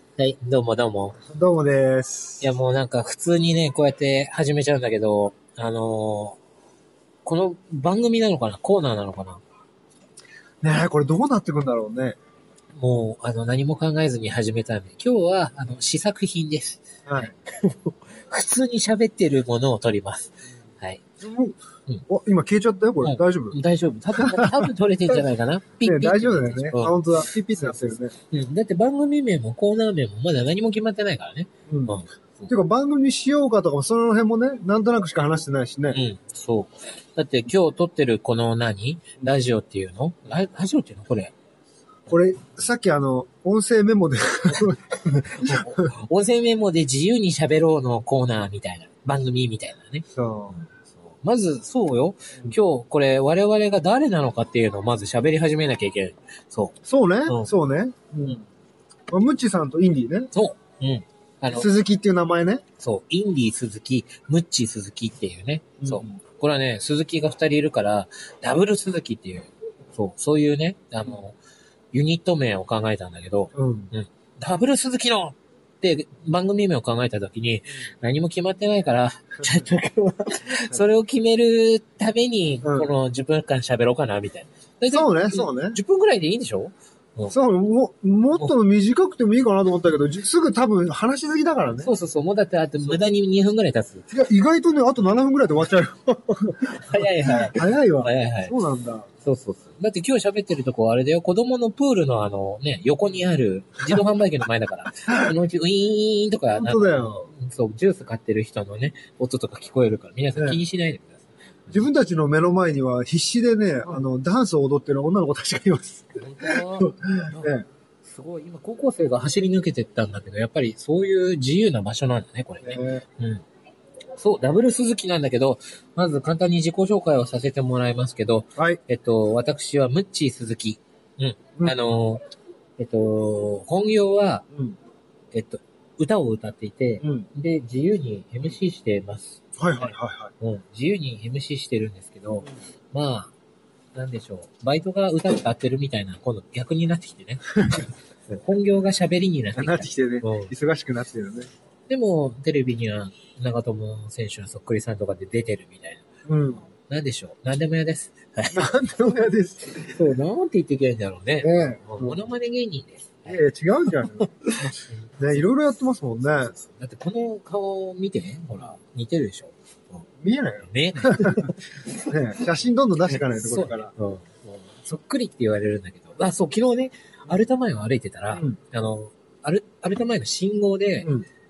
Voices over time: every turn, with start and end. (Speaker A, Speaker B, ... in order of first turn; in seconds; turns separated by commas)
Speaker A: 0.2-1.2, Speaker B: 1.3-2.5, Speaker A: 2.4-6.4, Speaker A: 7.2-9.4, Speaker B: 10.6-12.2, Speaker A: 12.8-21.0, Speaker B: 21.2-23.6, Speaker A: 23.0-32.5, Speaker B: 24.2-25.2, Speaker B: 25.8-28.1, Speaker B: 31.7-36.0, Speaker A: 35.9-41.3, Speaker B: 42.1-45.9, Speaker A: 45.3-57.5, Speaker B: 50.1-50.6, Speaker B: 56.9-58.4, Speaker B: 59.1-60.3, Speaker A: 60.3-61.7, Speaker B: 61.5-62.6, Speaker A: 62.8-71.4, Speaker B: 65.8-66.2, Speaker A: 71.9-87.3, Speaker B: 73.5-73.9, Speaker B: 84.9-85.8, Speaker B: 87.3-91.9, Speaker A: 91.8-94.1, Speaker B: 94.1-99.1, Speaker A: 96.7-98.5, Speaker A: 99.2-111.8, Speaker B: 105.1-105.3, Speaker B: 106.5-107.3, Speaker B: 110.3-110.6, Speaker B: 111.7-117.7, Speaker A: 116.2-123.4, Speaker B: 122.6-123.0, Speaker A: 124.2-132.2, Speaker A: 132.8-134.5, Speaker A: 135.3-143.3, Speaker B: 137.0-137.3, Speaker B: 139.6-140.3, Speaker A: 143.9-150.5, Speaker B: 147.6-147.8, Speaker B: 149.6-151.5, Speaker A: 151.9-156.1, Speaker B: 156.3-156.6, Speaker A: 156.6-158.8, Speaker B: 158.5-160.0, Speaker A: 159.8-163.4, Speaker B: 161.4-162.3, Speaker B: 163.3-166.5, Speaker A: 164.4-165.2, Speaker A: 166.2-170.1, Speaker B: 170.2-173.9, Speaker A: 170.6-171.8, Speaker A: 173.1-181.1, Speaker B: 178.3-178.6